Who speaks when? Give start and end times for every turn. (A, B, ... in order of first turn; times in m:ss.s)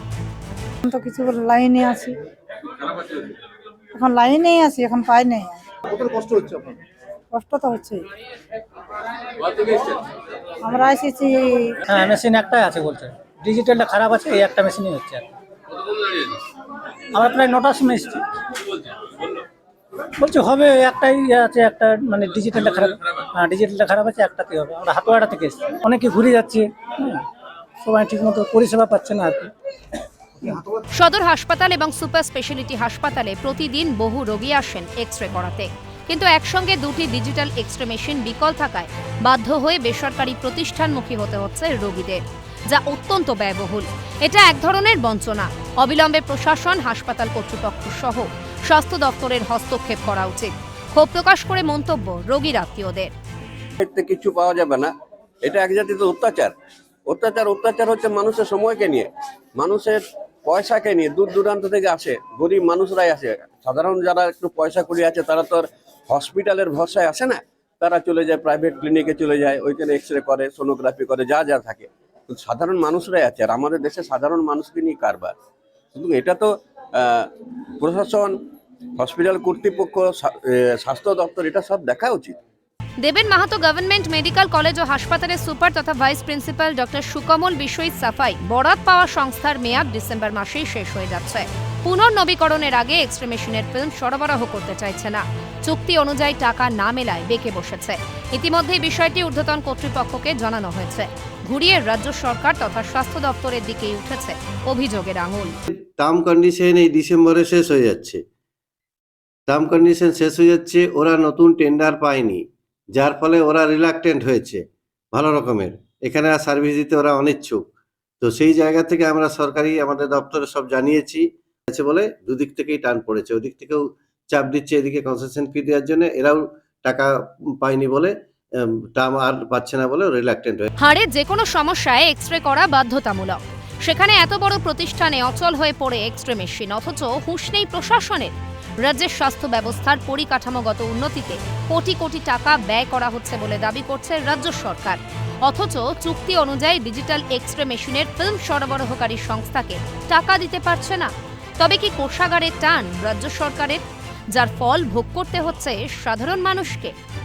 0:00.8-0:02.2 A
0:03.9-0:06.7 A
0:07.3-0:08.1 A
0:09.5-0:10.0 A
0:10.6-0:11.8 A
0:11.9-0:15.3 B
0:17.1-0:18.2 B
0:20.2-0:27.2 B
0:27.8-0:29.5 B
0:30.9-0:53.1 C
0:53.8-0:54.9 D
0:55.4-0:56.5 D
0:57.1-1:15.3 D
1:15.9-1:18.4 D
1:19.0-1:22.4 D
1:23.0-1:45.6 C
1:45.7-1:48.2 E
1:49.5-1:52.4 E
1:53.0-1:57.6 E
1:58.2-2:07.1 E
2:07.6-2:10.7 E
2:10.8-2:36.9 C